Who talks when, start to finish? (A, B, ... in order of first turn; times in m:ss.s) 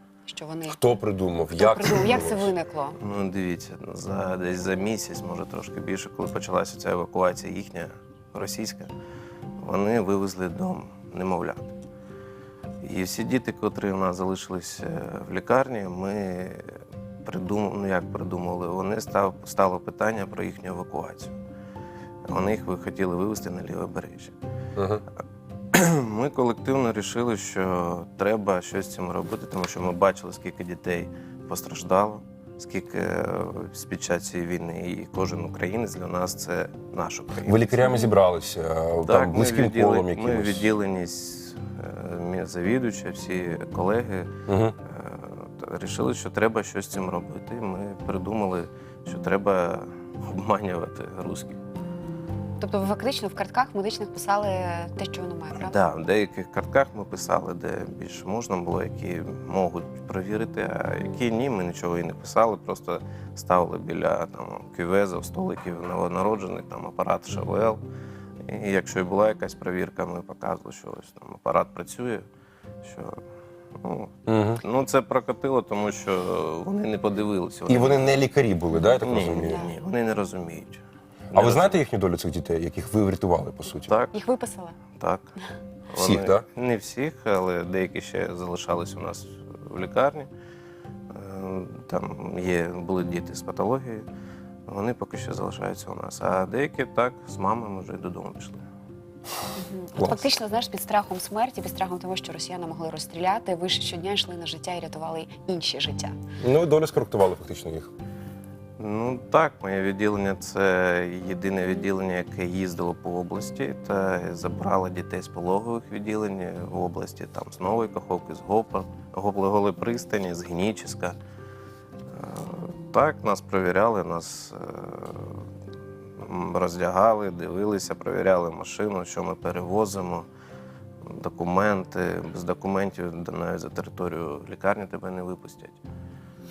0:00.2-0:00.8 A
0:00.7-0:02.5 B
0:01.5-0:03.0 A
0:03.0-0:08.9 C
0:09.6-0:11.7 C
0:12.8-0:21.3 C
0:22.3-0:24.3 C
0:24.8-0:25.0 B
0:25.7-0:38.1 C
0:37.4-0:40.7 B
0:39.0-0:44.3 C
0:44.5-0:44.8 B
0:44.8-0:51.6 C
0:52.6-0:55.8 A
0:55.6-1:07.8 C
1:08.5-1:12.2 C
1:12.8-1:13.1 C
1:13.8-1:18.2 C
1:14.3-1:14.6 B
1:17.7-1:19.7 B
1:18.7-1:19.7 A
1:19.0-1:21.8 C
1:21.3-1:23.9 B
1:23.9-1:24.1 C
1:24.1-1:24.8 A
1:24.9-1:25.3 C
1:25.9-1:30.3 C
1:26.0-1:26.4 B
1:31.1-1:34.0 C
1:34.7-1:38.6 C
1:39.6-1:46.1 A
1:40.0-1:40.3 B
1:46.4-1:47.9 B
1:48.8-2:01.2 C
2:02.1-2:05.4 C
2:06.2-2:10.3 C
2:11.0-2:15.8 C